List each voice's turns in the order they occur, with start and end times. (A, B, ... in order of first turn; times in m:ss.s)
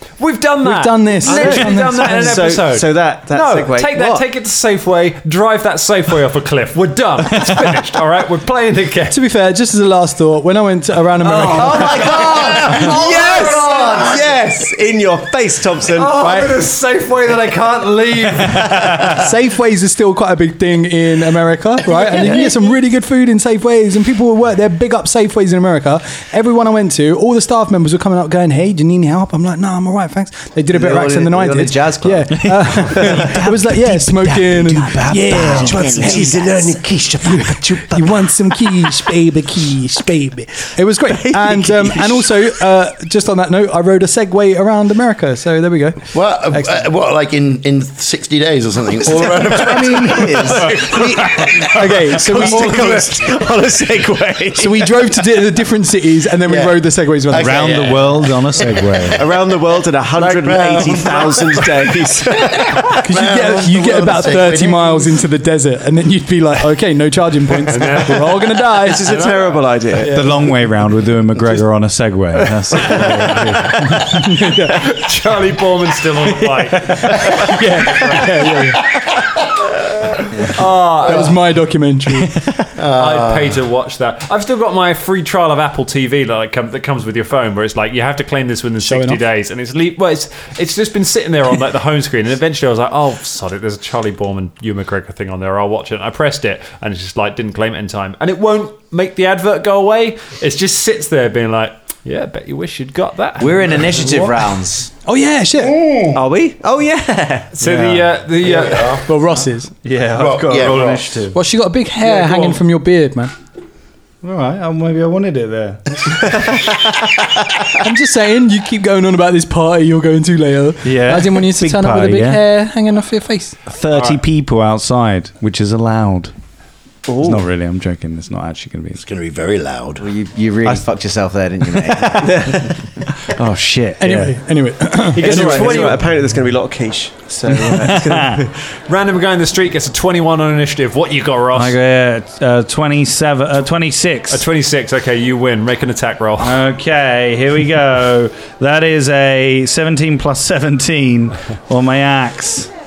0:00.2-0:09.2 A
0:00.6-0:02.4 B
0:01.2-0:04.2 C
0:09.1-0:12.2 B
0:11.3-0:14.5 D
0:11.3-0:13.5 A
0:11.8-0:16.5 C
0:16.0-0:19.1 A
0:19.0-0:36.5 B
0:21.9-0:22.7 C
0:30.7-0:36.5 D
0:35.2-0:38.3 C
0:37.3-0:46.9 B
0:41.4-0:42.2 D
0:46.1-0:50.8 E
0:49.2-0:51.6 D
0:50.6-0:55.1 C
0:51.1-0:51.5 A
0:51.6-0:53.2 B
0:52.3-0:53.2 D
0:54.6-0:57.9 B
0:56.5-0:59.1 E
0:57.3-0:59.2 F
0:59.1-1:02.8 C
1:00.1-1:05.2 E
1:03.0-1:09.1 B
1:07.7-1:09.6 A
1:08.8-1:10.2 C
1:10.0-1:10.4 B
1:10.1-1:14.3 F
1:12.7-1:13.4 C
1:13.8-1:14.9 B
1:14.6-1:18.7 A
1:17.0-1:18.8 B
1:20.4-1:21.4 A
1:21.0-1:22.4 B
1:22.8-1:23.6 E
1:22.9-1:44.0 A
1:28.8-1:29.2 B
1:43.4-1:44.9 D
1:45.0-1:45.8 B
1:45.6-1:46.2 E
1:46.1-1:47.5 C
1:47.6-1:49.1 A
1:47.6-1:48.1 F
1:48.4-1:49.0 E
1:49.1-1:49.7 B
1:49.8-1:51.4 F
1:50.1-1:51.0 E
1:50.5-1:51.2 A
1:51.3-1:53.3 B
1:52.0-1:52.6 A
1:54.2-1:56.3 F
1:56.3-1:56.7 C
1:57.8-2:03.6 B
2:00.8-2:02.4 F
2:03.7-2:06.3 F
2:03.9-2:04.2 A
2:07.1-2:07.4 C
2:07.2-2:09.0 F
2:09.0-2:10.1 E
2:10.0-2:12.6 D
2:12.2-2:12.7 C
2:13.3-2:14.4 F
2:14.0-2:15.9 B
2:15.1-2:18.6 C
2:15.3-2:15.8 F
2:15.4-2:15.9 A
2:17.5-2:18.4 F
2:18.9-2:21.8 A
2:21.5-2:24.4 F
2:24.3-2:26.6 A
2:26.4-2:32.7 F